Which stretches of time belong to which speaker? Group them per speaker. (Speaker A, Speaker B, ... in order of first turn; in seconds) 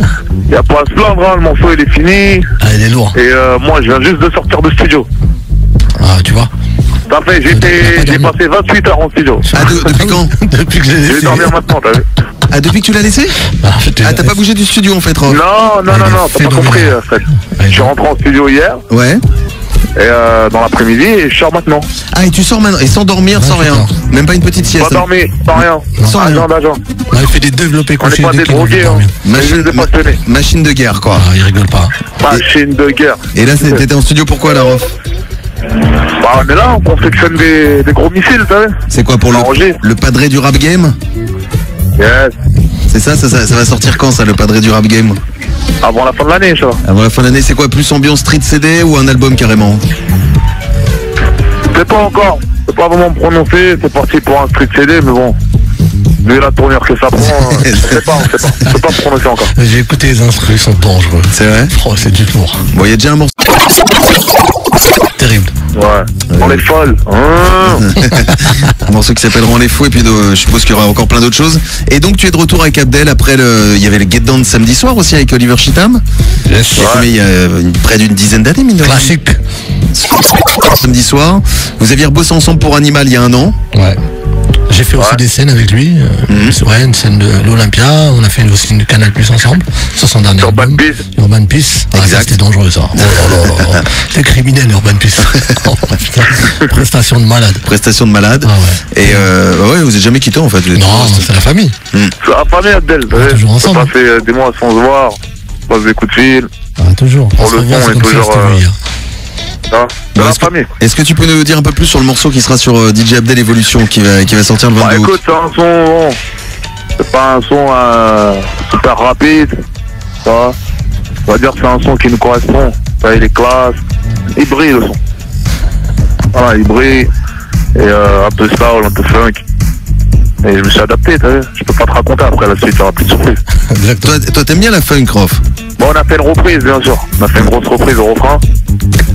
Speaker A: 0.5-2.5, 3.1-5.1, 7.1-9.5, 11.1-12.1, 15.3-18.8, 20.0-21.9, 24.8-26.8, 28.0-30.2, 32.2-33.8, 36.1-38.8, 39.3-39.8, 42.0-42.4, 45.8-46.8, 51.7-55.4, 56.2-59.5, 65.7-67.9, 76.8-77.1, 90.4-91.0, 102.2-105.2, 105.7-106.5, 107.4-108.6, 109.7-110.7, 114.8-116.2, 117.0-119.5, 120.2-120.5, 121.3-123.8, 124.3-125.0, 126.3-127.1, 127.8-129.4, 130.4-133.4, 135.8-138.4
Speaker B: 2.6-3.1, 6.0-6.5, 7.5-8.3, 9.4-11.6, 13.6-14.3, 15.9-17.0, 17.6-17.9, 23.4-23.9, 26.0-26.2, 27.1-29.2, 31.2-32.0, 59.5-62.6, 65.2-65.5, 68.0-68.6, 76.5-76.9, 78.8-79.4, 83.7-84.0, 84.7-97.7, 98.4-99.3, 100.7-101.8, 103.1-103.9, 106.8-108.8, 133.7-134.2
Speaker C: 9.5-10.3, 12.5-13.4, 14.0-15.4, 18.9-19.2, 22.1-26.5, 29.2-31.3, 33.3-34.9, 38.9-41.0, 42.9-45.2, 46.8-49.8, 57.5-58.0, 61.3-61.7, 62.7-63.3, 66.3-66.6, 67.7-76.0, 76.8-79.1, 80.0-83.5, 86.3-86.6, 91.9-92.4, 93.0-93.8, 97.7-101.3, 110.2-115.1, 134.0-135.4